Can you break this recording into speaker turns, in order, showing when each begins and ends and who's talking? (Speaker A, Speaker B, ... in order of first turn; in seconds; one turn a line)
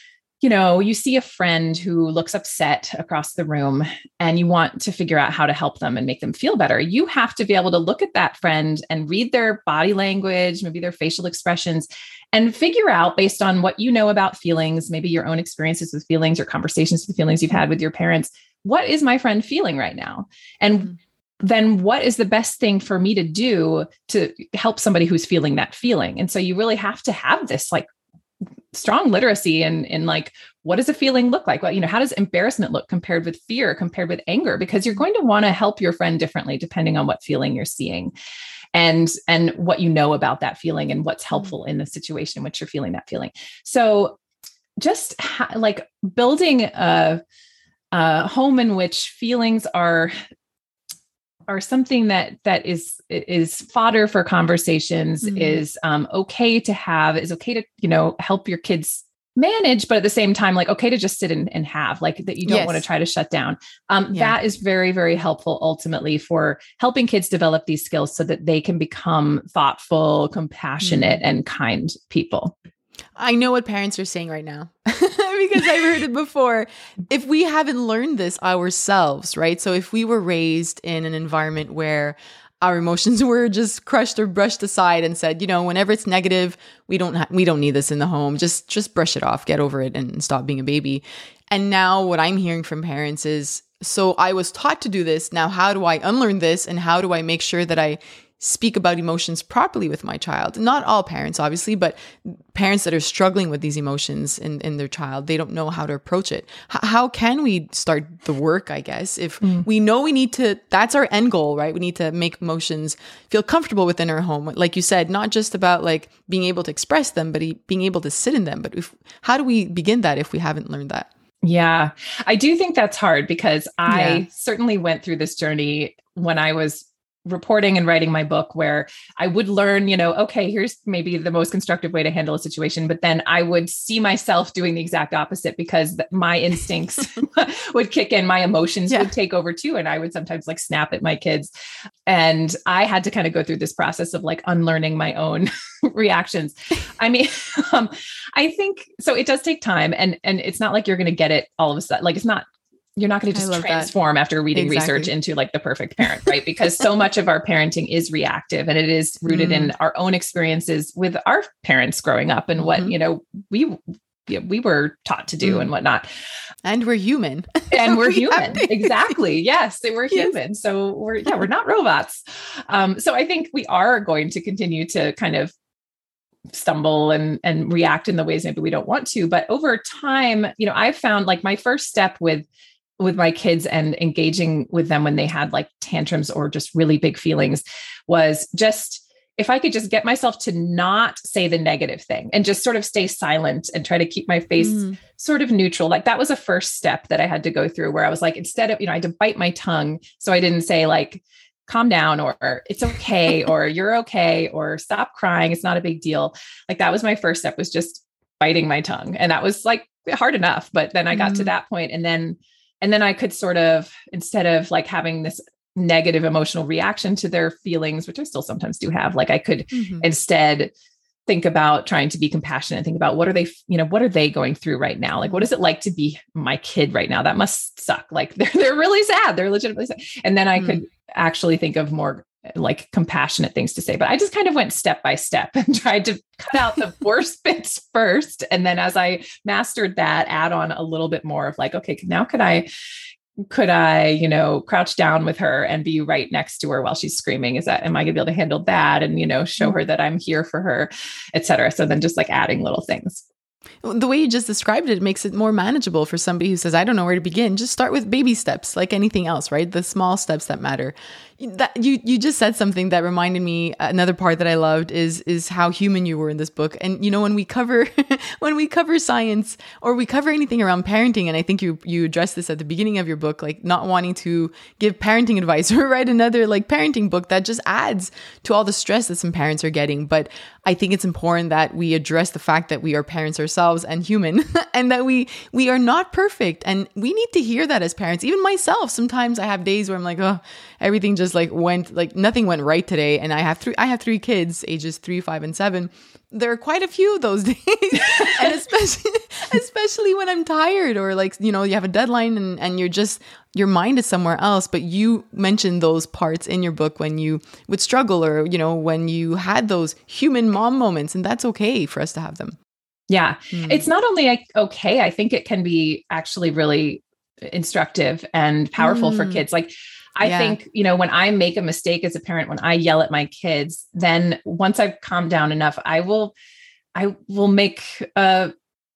Speaker A: 0.4-27.9
Speaker A: 28.7-38.1
Speaker A: 38.7-44.2
Speaker A: 44.8-47.2
Speaker A: 47.9-50.1
Speaker A: 51.5-72.5
Speaker B: 55.2-55.6
Speaker B: 62.4-62.8
Speaker B: 70.8-71.2
Speaker B: 73.2-121.1
Speaker A: 121.4-141.5
Speaker B: 123.9-124.2
Speaker A: 142.1-152.4
Speaker A: 153.0-166.1
Speaker B: 153.3-153.9
Speaker B: 154.5-155.1
Speaker B: 159.3-159.7
Speaker B: 162.6-162.9
Speaker B: 165.4-165.7
Speaker B: 166.6-169.0
Speaker A: 167.7-175.5
Speaker A: 176.5-182.5
Speaker A: 183.0-220.7
Speaker B: 194.6-194.9
Speaker B: 211.1-211.5
Speaker B: 219.7-220.1
Speaker A: 221.3-242.7
Speaker B: 230.6-230.8
Speaker A: 243.5-253.2
Speaker B: 253.8-312.6
Speaker A: 313.1-326.3
Speaker B: 313.5-313.8
Speaker B: 318.8-319.4
Speaker B: 320.2-320.6
Speaker A: 326.9-328.5